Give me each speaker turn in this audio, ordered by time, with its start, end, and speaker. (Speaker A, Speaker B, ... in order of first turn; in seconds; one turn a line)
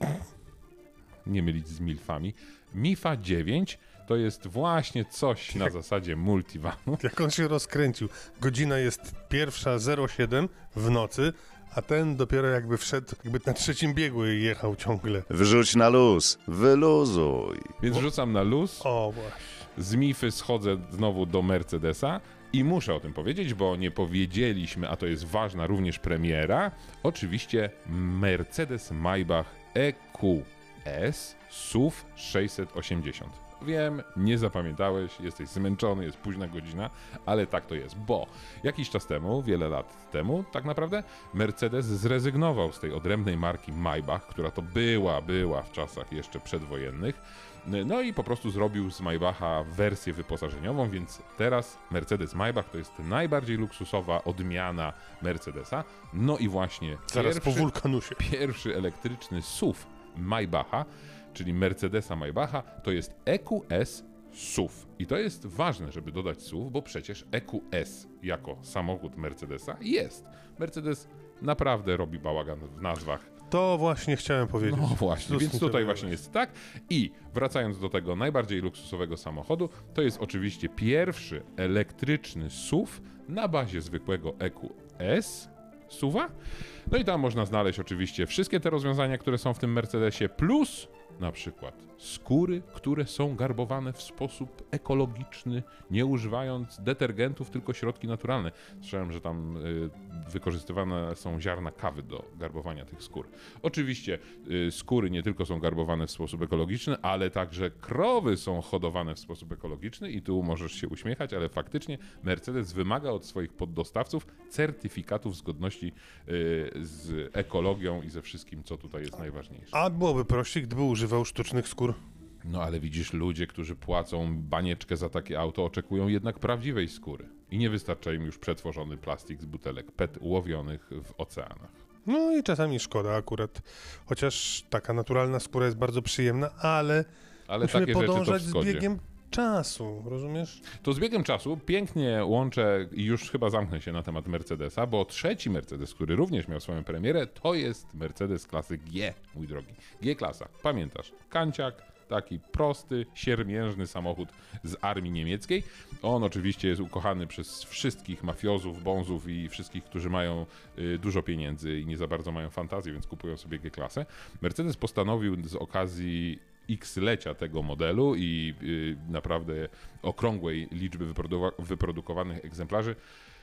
Speaker A: 1.2-7.0
Speaker B: 7.0-15.3
Speaker C: 15.3-17.8
Speaker A: 17.8-18.9
Speaker B: 18.8-19.7
Speaker A: 19.8-73.3
Speaker B: 57.1-58.2
Speaker B: 73.5-76.1
Speaker A: 74.6-86.3
Speaker A: 86.9-119.7
Speaker B: 119.7-122.0
Speaker A: 122.4-131.8
Speaker B: 132.1-137.1
Speaker A: 137.5-138.9
Speaker B: 137.6-140.6
Speaker A: 140.8-173.0